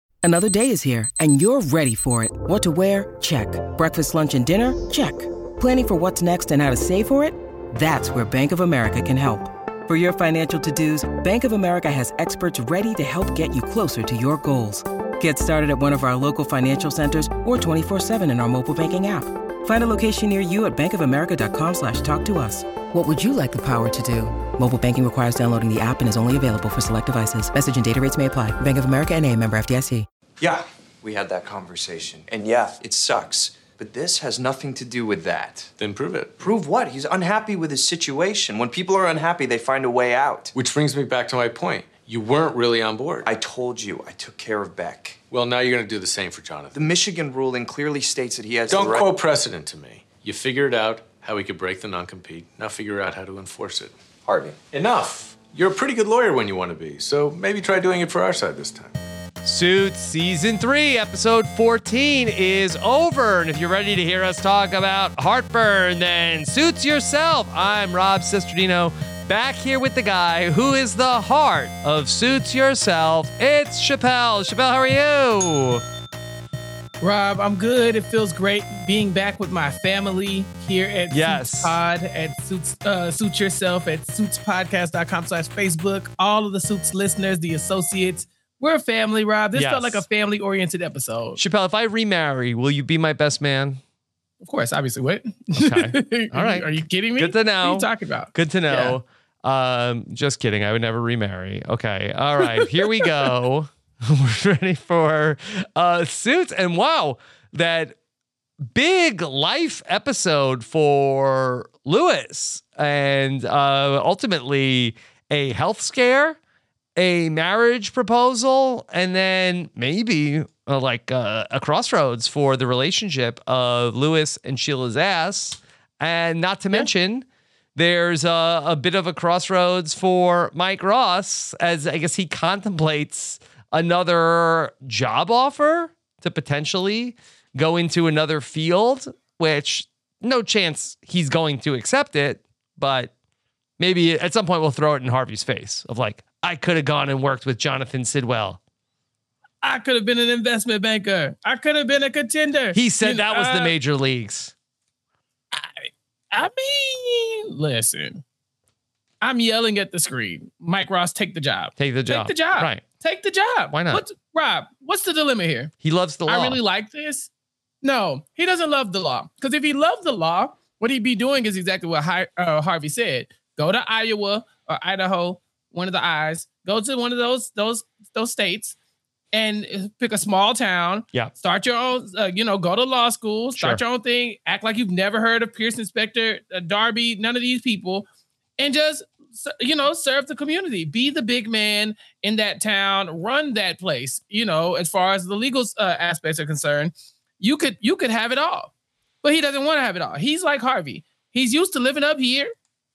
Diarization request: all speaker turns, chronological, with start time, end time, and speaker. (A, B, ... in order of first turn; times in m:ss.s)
0:00.2-0:30.1 A
0:30.4-0:35.7 B
0:35.8-0:36.4 C
0:36.4-0:40.5 B
0:40.5-0:43.3 C
0:43.2-0:45.2 B
0:45.3-0:46.8 C
0:46.7-0:49.1 B
0:48.7-0:54.0 C
0:54.2-0:54.6 B
0:54.6-0:59.0 C
0:59.4-1:15.8 D
1:17.0-1:31.4 E
1:21.1-1:21.8 D
1:29.5-1:30.0 D
1:31.4-1:33.8 D
1:34.4-1:39.0 E
1:35.5-1:48.0 D
1:42.6-1:43.3 E
1:48.6-1:56.4 D
1:57.0-2:23.1 D
2:23.8-2:28.6 D
2:29.6-2:33.7 E
2:32.7-2:34.5 D
2:35.5-2:38.2 E
2:39.2-2:45.7 E
2:41.8-2:42.8 D
2:43.7-2:44.0 D
2:45.8-2:46.6 D
2:46.3-2:47.3 E
2:47.8-2:58.7 E
2:59.3-3:08.1 E
3:03.6-3:03.8 D
3:08.6-3:18.7 E
3:19.2-3:22.5 E